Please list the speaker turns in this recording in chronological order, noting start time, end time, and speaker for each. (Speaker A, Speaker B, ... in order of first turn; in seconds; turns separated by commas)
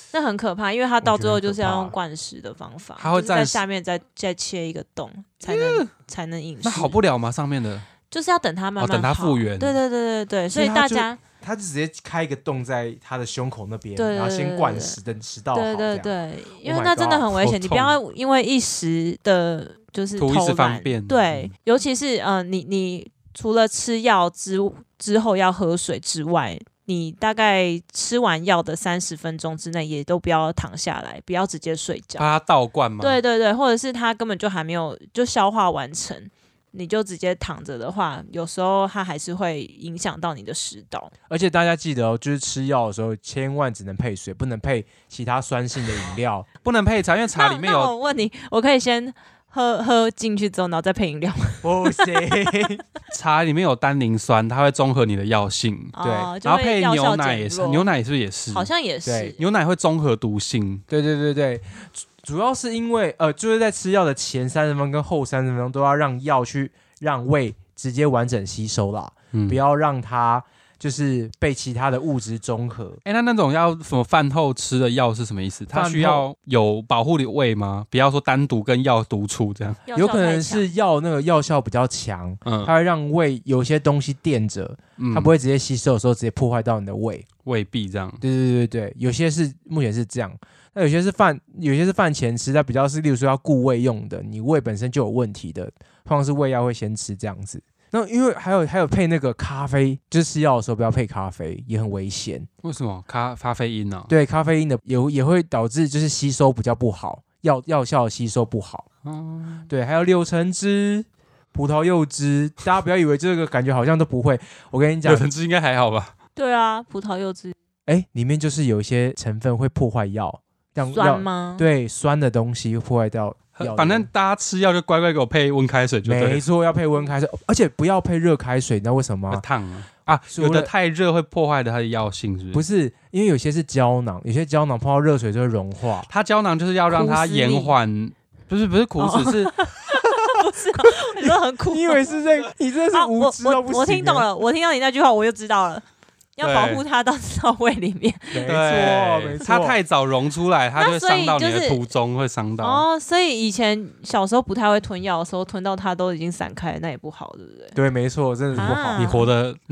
Speaker A: 0.1-6.9, Speaker B: 1.0-1.9, Speaker C: 3.0-3.6, Speaker C: 5.5-5.9, Speaker C: 6.6-7.8, Speaker A: 8.1-11.2, Speaker C: 8.8-9.8, Speaker B: 10.5-17.3, Speaker A: 13.9-15.0, Speaker A: 15.5-32.3, Speaker C: 17.3-18.0, Speaker C: 20.2-21.5, Speaker C: 32.2-33.2, Speaker A: 33.0-41.1, Speaker B: 41.3-46.5, Speaker C: 46.6-47.9, Speaker A: 47.3-52.4, Speaker B: 51.6-52.8, Speaker C: 53.1-58.7, Speaker A: 55.9-57.9, Speaker B: 56.0-56.3, Speaker A: 58.5-59.4, Speaker B: 59.0-59.3, Speaker C: 59.4-60.8, Speaker B: 60.9-73.0, Speaker C: 69.3-69.6, Speaker C: 73.0-79.8, Speaker B: 75.7-76.3, Speaker A: 79.9-80.7, Speaker B: 79.9-87.3, Speaker C: 82.5-82.7, Speaker C: 85.0-85.3, Speaker C: 87.4-88.2, Speaker B: 88.2-102.5, Speaker C: 102.6-104.1, Speaker B: 104.1-108.9, Speaker C: 109.0-109.6, Speaker B: 109.7-115.3, Speaker C: 115.0-116.1, Speaker A: 116.3-117.5, Speaker B: 117.9-124.1, Speaker A: 120.9-121.6, Speaker C: 123.6-126.4, Speaker B: 126.0-129.4, Speaker C: 129.3-132.6, Speaker B: 130.3-130.7, Speaker B: 132.5-136.1, Speaker C: 136.1-139.5, Speaker A: 136.9-137.7, Speaker A: 139.0-142.2, Speaker B: 141.2-144.2, Speaker A: 142.9-145.8, Speaker A: 146.4-148.6, Speaker C: 146.4-146.8, Speaker B: 148.3-149.8, Speaker C: 148.4-152.8, Speaker A: 150.8-151.8, Speaker A: 152.6-157.8, Speaker B: 157.7-159.0, Speaker A: 158.5-159.3, Speaker C: 158.5-159.6